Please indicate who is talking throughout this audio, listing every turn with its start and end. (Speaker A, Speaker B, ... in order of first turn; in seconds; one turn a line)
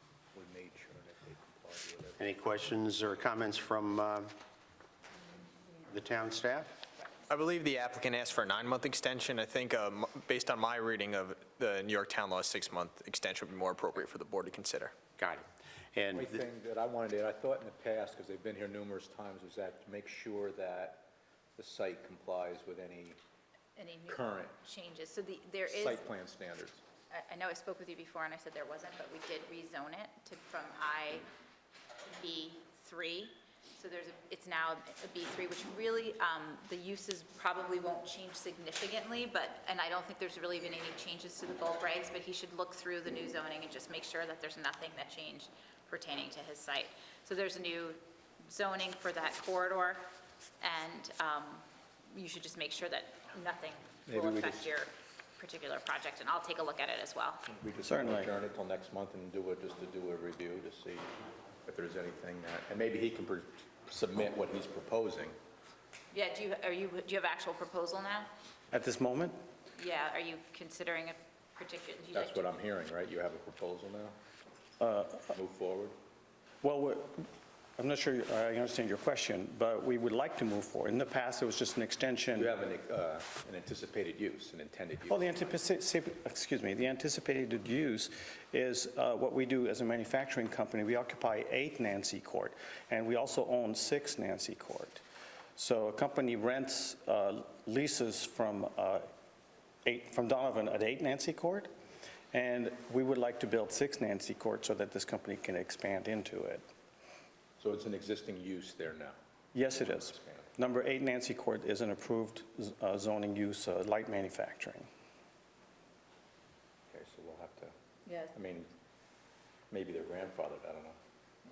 Speaker A: 0.3-2.3
Speaker B: 2.2-4.3
Speaker B: 5.9-6.7
Speaker C: 7.3-14.9
Speaker B: 15.2-15.4
Speaker B: 16.0-16.4
Speaker A: 16.1-23.2
Speaker D: 23.8-26.1
Speaker A: 24.1-24.6
Speaker A: 25.6-26.8
Speaker D: 27.1-31.3
Speaker D: 32.0-50.1
Speaker D: 50.6-57.5
Speaker A: 54.1-54.7
Speaker A: 57.5-61.1
Speaker E: 57.8-58.3
Speaker A: 61.7-65.4
Speaker D: 66.1-68.3
Speaker E: 68.7-69.4
Speaker D: 69.8-72.5
Speaker A: 72.1-74.2
Speaker E: 74.8-75.4
Speaker A: 75.3-76.0
Speaker E: 76.6-77.3
Speaker E: 77.8-82.5
Speaker A: 82.3-85.6
Speaker E: 85.1-95.0
Speaker E: 95.6-99.1
Speaker E: 99.8-101.7
Speaker E: 102.3-106.7
Speaker A: 107.6-109.2
Speaker E: 109.5-114.9
Speaker A: 109.7-110.5
Speaker A: 116.9-117.7
Speaker D: 118.1-118.3
Speaker A: 118.3-118.7
Speaker A: 119.7-121.0